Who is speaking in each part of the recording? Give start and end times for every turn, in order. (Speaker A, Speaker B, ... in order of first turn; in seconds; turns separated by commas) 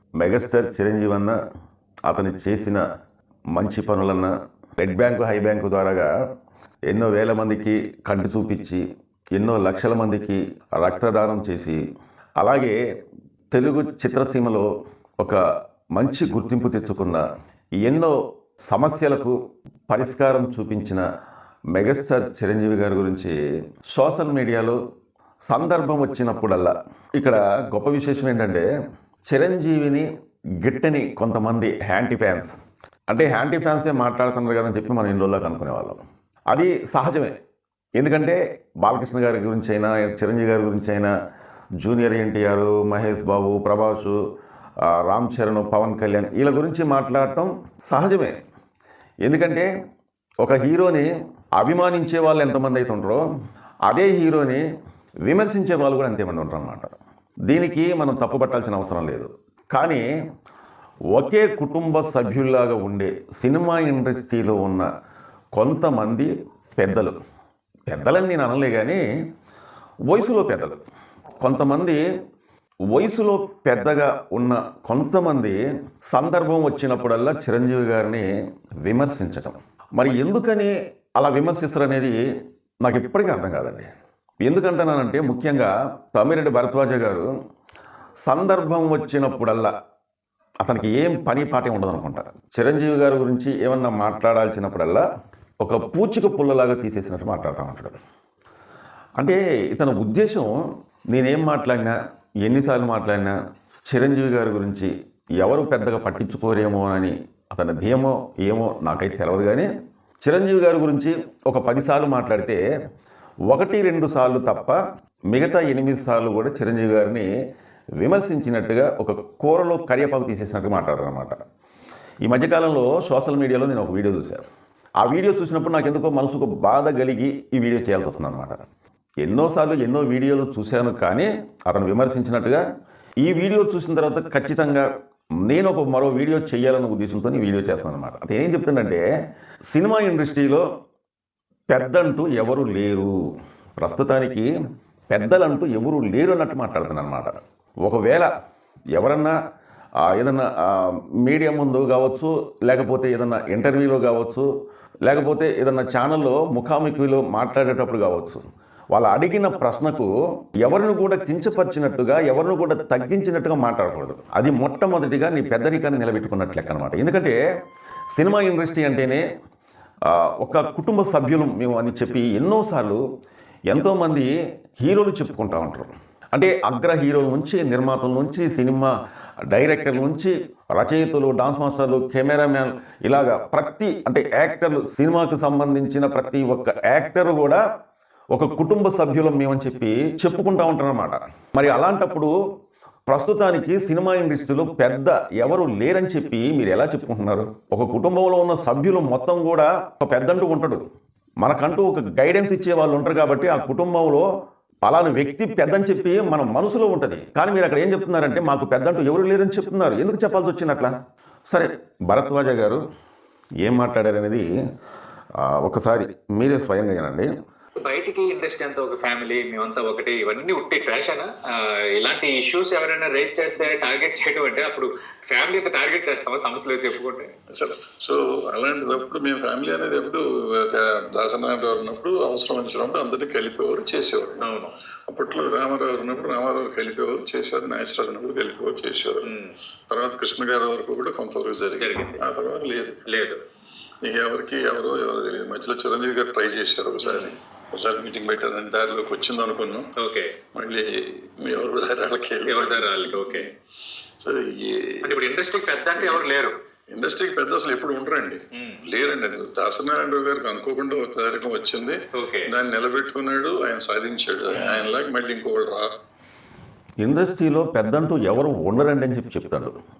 Speaker A: 0.2-1.4, Speaker A: 2.1-2.8, Speaker A: 3.5-6.1, Speaker A: 6.9-8.8, Speaker A: 9.3-11.8, Speaker A: 12.4-12.7, Speaker A: 13.5-14.7, Speaker A: 15.9-17.2, Speaker A: 17.8-18.1, Speaker A: 18.7-19.4, Speaker A: 19.9-21.0, Speaker A: 21.7-23.3, Speaker A: 23.9-24.8, Speaker A: 25.5-28.7, Speaker A: 29.3-30.1, Speaker A: 30.6-32.5, Speaker A: 33.1-36.0, Speaker A: 36.5-37.3, Speaker A: 38.0-41.1, Speaker A: 41.8-44.2, Speaker A: 44.9-48.4, Speaker A: 49.2-49.7, Speaker A: 50.4-53.2, Speaker A: 53.9-54.6, Speaker A: 55.3-56.9, Speaker A: 57.5-60.0, Speaker A: 61.1-64.9, Speaker A: 65.5-67.1, Speaker A: 67.9-69.0, Speaker A: 70.1-70.8, Speaker A: 71.4-72.0, Speaker A: 72.9-78.2, Speaker A: 78.8-82.2, Speaker A: 82.8-83.9, Speaker A: 84.4-87.3, Speaker A: 88.2-89.7, Speaker A: 90.6-95.0, Speaker A: 95.6-98.0, Speaker A: 99.2-100.6, Speaker A: 101.1-103.4, Speaker A: 103.9-109.7, Speaker A: 110.2-112.6, Speaker A: 113.5-114.8, Speaker A: 115.3-117.3, Speaker A: 118.0-121.4, Speaker A: 122.2-124.4, Speaker A: 125.0-128.6, Speaker A: 129.2-132.6, Speaker A: 133.2-134.9, Speaker A: 135.4-139.0, Speaker A: 139.7-140.6, Speaker A: 141.7-143.1, Speaker A: 143.8-144.5, Speaker A: 145.1-148.3, Speaker A: 148.9-149.3, Speaker A: 150.0-154.5, Speaker A: 155.0-160.1, Speaker A: 160.6-167.4, Speaker A: 168.1-169.2, Speaker A: 170.4-173.0, Speaker A: 173.7-178.9, Speaker A: 179.5-187.6, Speaker A: 188.3-192.3, Speaker A: 193.1-200.8, Speaker A: 201.4-204.2, Speaker A: 204.8-210.9, Speaker A: 211.5-212.8, Speaker A: 213.6-214.5, Speaker A: 215.4-217.3, Speaker B: 217.8-227.3, Speaker C: 227.5-239.3, Speaker C: 239.9-243.0, Speaker B: 241.8-242.1, Speaker C: 244.0-249.9, Speaker B: 247.1-247.3, Speaker C: 250.5-253.5, Speaker B: 252.5-253.4, Speaker C: 254.2-255.2, Speaker B: 255.1-256.5, Speaker C: 255.9-256.2, Speaker C: 256.9-265.9, Speaker A: 267.0-269.7